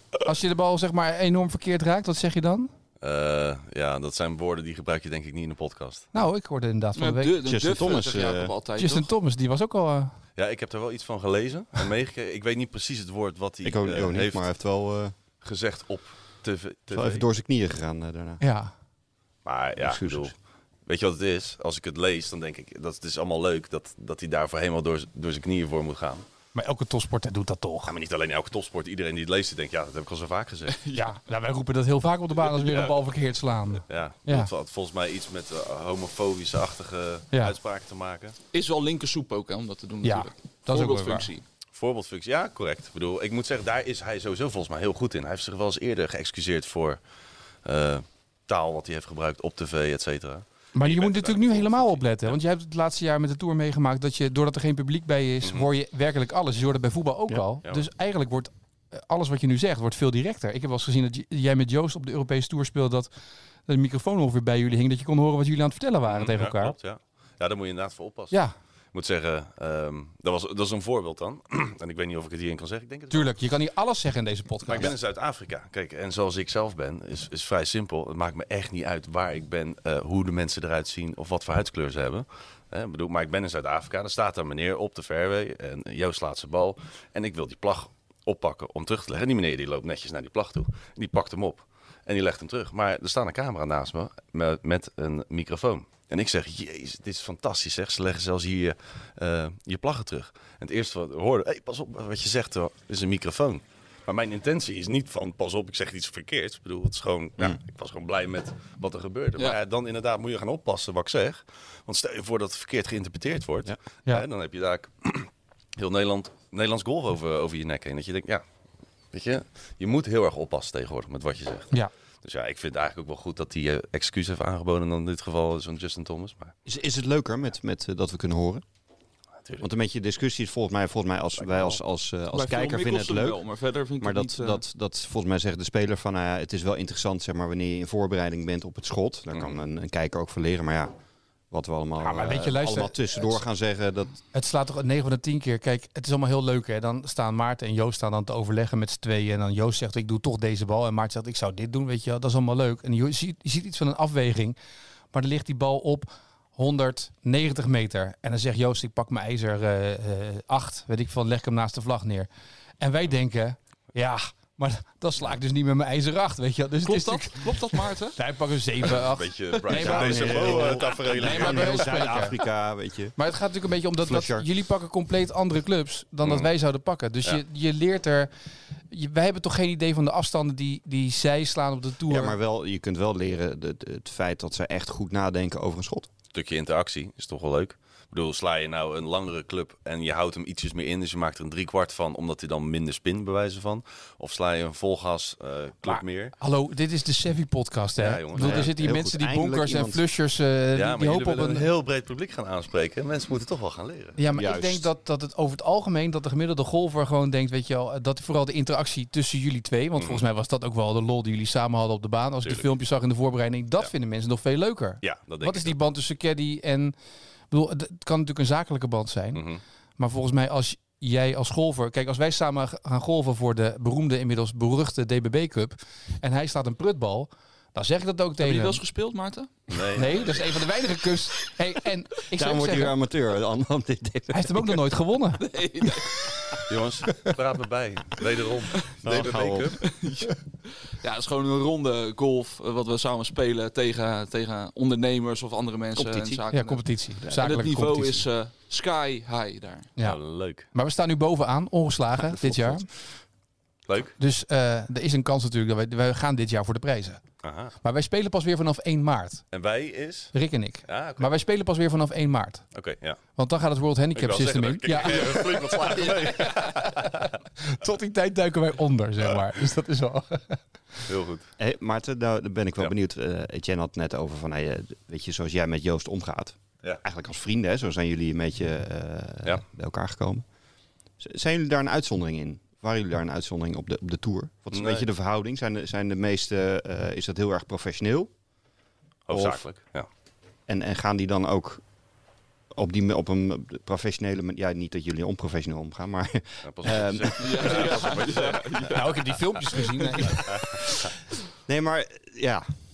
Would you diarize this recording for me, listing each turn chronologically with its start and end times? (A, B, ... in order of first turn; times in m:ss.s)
0:00.2-0:02.7 A
0:03.0-0:06.1 B
0:06.1-0:07.5 A
0:07.0-0:09.1 C
0:07.4-0:08.5 D
0:08.8-0:10.1 A
0:10.4-0:14.4 B
0:13.6-0:15.1 D
0:15.4-0:17.3 B
0:16.9-0:18.4 D
0:18.4-0:18.7 A
0:19.4-0:20.3 B
0:19.8-0:20.3 D
0:20.9-0:26.2 B
0:26.5-0:27.9 A
0:27.9-0:30.8 B
0:30.7-0:31.1 C
0:31.0-0:34.5 A
0:32.4-0:33.0 B
0:33.9-0:38.4 B
0:38.5-0:41.4 C
0:40.0-0:41.3 A
0:41.7-0:47.0 B
0:47.6-0:52.4 B
0:50.8-1:03.1 A
1:03.7-1:06.8 A
1:06.1-1:08.4 B
1:08.9-1:13.3 B
1:13.1-1:14.9 A
1:14.7-1:58.4 B
1:59.1-2:06.6 B
2:06.7-2:08.6 D
2:09.4-2:09.7 B
2:09.6-2:13.4 D
2:11.4-2:11.8 B
2:12.3-2:14.6 C
2:14.0-2:20.9 D
2:21.5-2:24.2 D
2:22.0-2:23.4 A
2:24.3-2:34.6 A
2:35.1-2:42.3 A
2:42.8-2:52.4 A
2:46.8-2:48.2 C
2:48.9-2:52.1 B
2:49.7-2:53.2 D
2:53.2-2:58.3 A
2:54.0-2:54.5 D
2:58.9-3:02.4 A
3:02.1-3:06.1 D
3:06.3-3:16.4 B
3:15.8-3:21.7 A
3:18.0-3:18.7 B
3:18.4-3:20.1 D
3:20.8-3:24.2 B
3:24.2-3:37.0 A
3:24.3-3:24.9 D
3:30.0-3:30.2 B
3:32.4-3:32.7 B
3:35.0-3:35.8 B
3:37.5-3:39.4 A
3:39.3-3:39.6 B
3:40.0-3:48.8 A
3:48.4-3:49.8 C
3:49.7-3:50.6 B
3:49.9-3:53.0 A
3:52.3-3:54.8 D
3:54.3-3:55.4 A
3:55.4-3:56.2 C
3:56.0-3:56.6 A
3:56.7-3:59.9 B
3:59.0-3:59.8 D
3:59.8-4:09.9 C
4:06.0-4:06.4 D
4:06.5-4:08.2 A
4:10.0-4:12.9 A
4:10.0-4:10.7 B
4:12.2-4:12.8 D
4:13.9-4:14.2 B
4:14.2-4:17.2 A
4:17.4-4:17.8 B
4:17.8-4:19.4 A
4:19.5-4:20.3 B
4:20.3-4:22.6 A
4:20.9-4:21.3 B
4:22.7-4:23.2 B
4:23.4-4:30.6 A
4:24.2-4:27.4 B
4:31.1-4:31.5 B
4:31.6-4:40.4 D
4:41.2-4:48.3 D
4:44.7-4:45.1 B
4:49.3-4:50.1 B
4:49.3-4:49.6 D
4:50.7-4:51.8 D
4:52.7-4:58.6 D
4:56.6-4:59.0 B
4:57.4-5:00.3 C
4:58.9-5:00.8 A
5:01.7-5:02.7 D